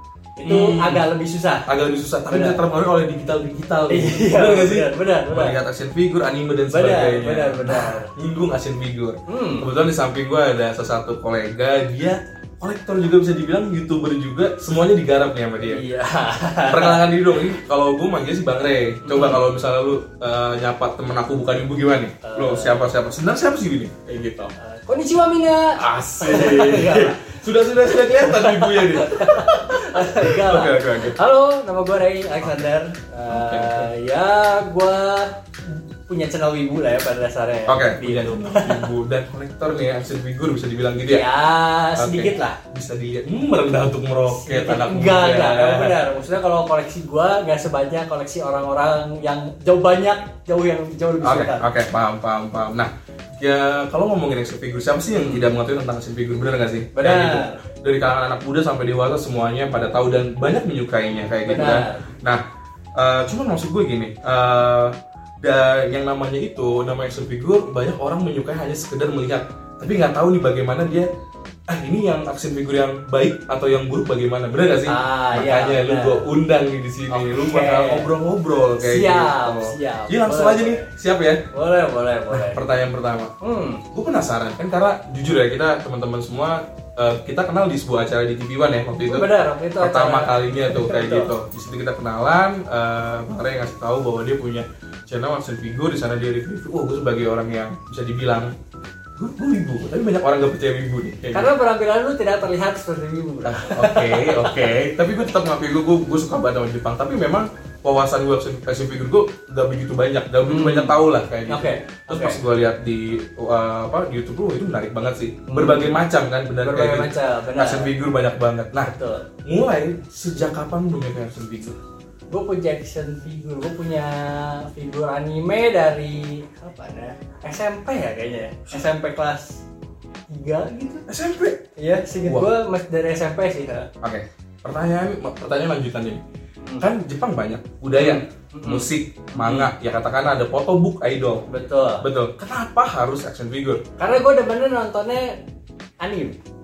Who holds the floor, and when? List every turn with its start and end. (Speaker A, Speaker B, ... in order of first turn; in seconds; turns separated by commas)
Speaker A: 0.4-1.7, Speaker B: 0.4-1.0, Speaker B: 1.7-15.8, Speaker A: 2.3-2.6, Speaker A: 3.9-5.6, Speaker A: 6.7-8.1, Speaker A: 9.3-9.7, Speaker A: 15.6-17.0, Speaker B: 16.6-24.5, Speaker A: 19.0-19.4, Speaker A: 22.2-22.9, Speaker A: 24.6-38.9, Speaker B: 25.8-31.1, Speaker B: 33.3-33.9, Speaker B: 37.7-41.2, Speaker A: 41.1-42.6, Speaker B: 42.0-45.9, Speaker A: 44.3-51.7, Speaker B: 51.2-62.4, Speaker A: 55.2-55.5, Speaker A: 56.9-57.6, Speaker A: 61.5-62.1, Speaker B: 63.0-71.1, Speaker B: 71.7-81.4, Speaker A: 74.6-76.2, Speaker A: 77.1-78.1, Speaker A: 78.8-80.9, Speaker A: 81.5-82.6, Speaker B: 82.3-83.3, Speaker A: 83.4-83.8, Speaker B: 83.9-98.5, Speaker A: 89.0-91.3, Speaker B: 99.2-101.5, Speaker A: 101.3-104.7, Speaker B: 103.5-121.8, Speaker A: 110.4-112.4, Speaker A: 115.5-116.0, Speaker A: 116.6-117.9, Speaker A: 118.8-119.3, Speaker A: 122.3-129.6, Speaker A: 130.3-131.0, Speaker B: 131.1-131.6, Speaker A: 131.8-133.9, Speaker B: 132.2-132.5, Speaker B: 134.0-136.2, Speaker A: 136.6-136.9, Speaker B: 136.8-141.4, Speaker A: 137.9-139.7, Speaker A: 141.5-142.0, Speaker B: 142.0-143.8, Speaker A: 144.0-145.4, Speaker A: 146.0-146.4